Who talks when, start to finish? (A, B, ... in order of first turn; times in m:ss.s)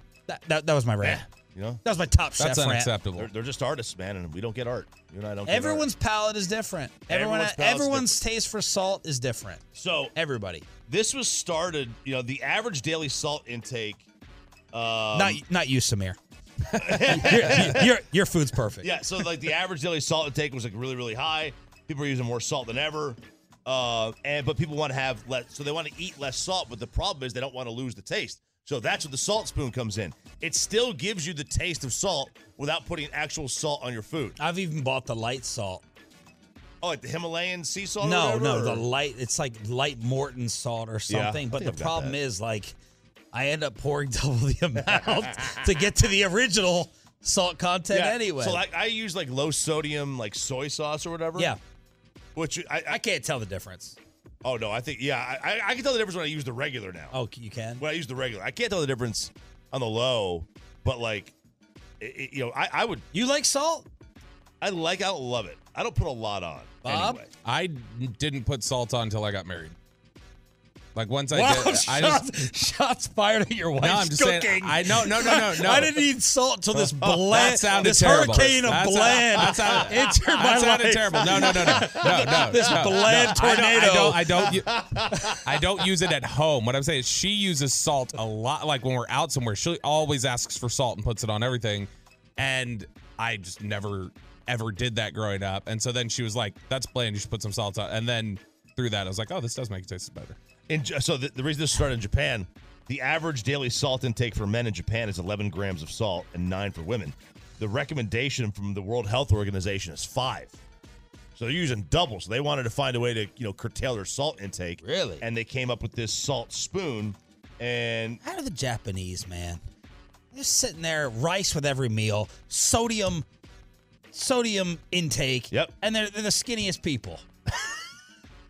0:00.3-0:01.2 A
0:01.0-0:01.8 B
0:01.8-0:02.9 A
0:02.4-0:03.3 C
0:03.2-0:05.9 B
0:05.4-0:09.6 A
0:07.1-0:08.2 B
0:09.7-0:10.1 B
0:10.1-0:10.6 A
0:10.9-0:14.0 B
0:14.7-0:15.4 B
0:15.1-0:16.2 A
0:16.8-0:18.0 B
0:16.9-0:18.9 A
0:18.8-0:34.4 B
0:34.4-0:35.8 A
0:36.8-0:38.8 B
0:38.0-0:42.8 A
0:41.1-0:42.2 B
0:43.3-0:48.6 A
0:44.8-0:45.6 B
0:47.9-0:51.5 B
0:52.4-0:53.0 B
0:52.9-0:54.0 A
0:54.4-0:57.1 B
0:57.1-0:57.8 A
0:57.8-1:01.3 B
1:02.0-1:03.0 B
1:03.1-1:03.9 A
1:04.6-1:07.3 B
1:06.8-1:07.2 A
1:07.4-1:09.8 C
1:10.9-1:12.2 C
1:11.3-1:24.4 A
1:13.8-1:16.0 C
1:17.0-1:20.0 B
1:17.3-1:40.4 C
1:21.2-1:23.4 B
1:24.5-1:25.4 B
1:40.7-1:50.5 B
1:51.4-1:58.2 B
1:54.8-1:55.2 A
1:58.2-1:59.6 A
2:00.3-2:03.2 A
2:04.1-2:07.2 A